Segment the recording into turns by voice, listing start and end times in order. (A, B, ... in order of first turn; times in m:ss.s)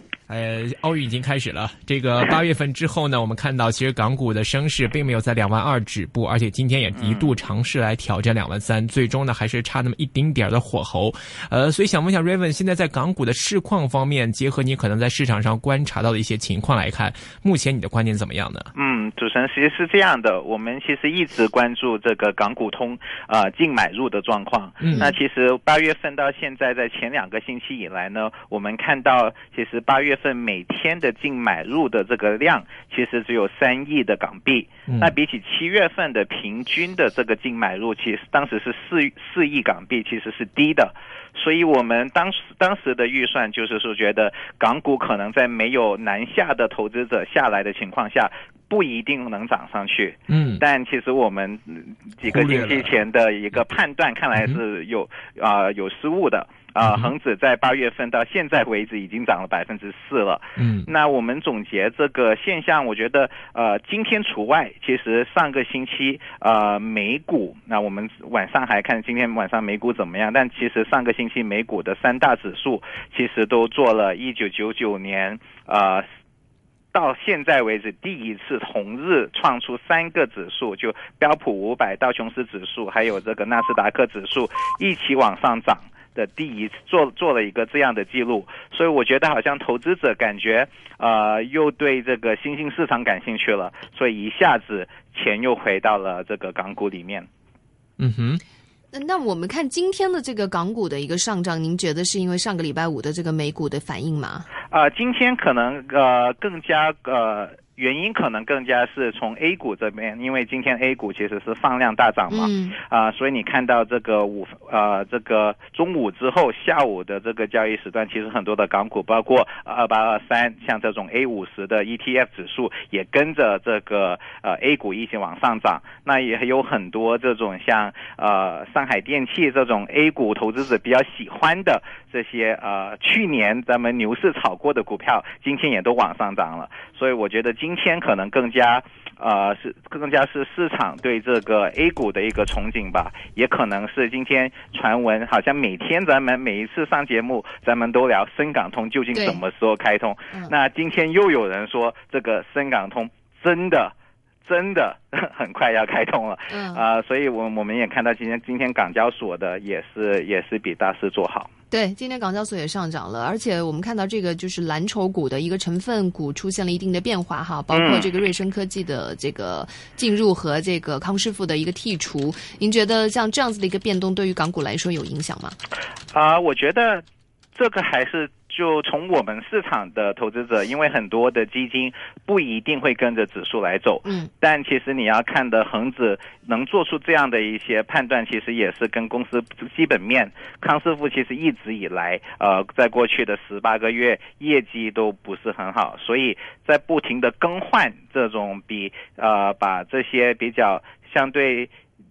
0:00.3-0:18.7 A
0:06.9-0:07.3 B
0:18.7-1:16.0 B
0:24.8-0:25.1 A
0:24.9-0:25.1 C
0:50.3-0:50.6 A
0:52.3-0:52.9 A
0:56.8-0:57.1 A
1:00.6-1:00.9 A
1:16.9-1:37.3 B
1:38.0-1:38.4 A
1:38.9-1:44.5 C
1:44.7-2:33.9 B
1:52.3-1:52.8 C
2:29.1-2:29.4 C
2:34.4-2:41.5 B
2:36.5-2:36.8 C
2:41.7-2:55.6 C
2:47.7-2:48.1 B
2:56.1-3:21.7 B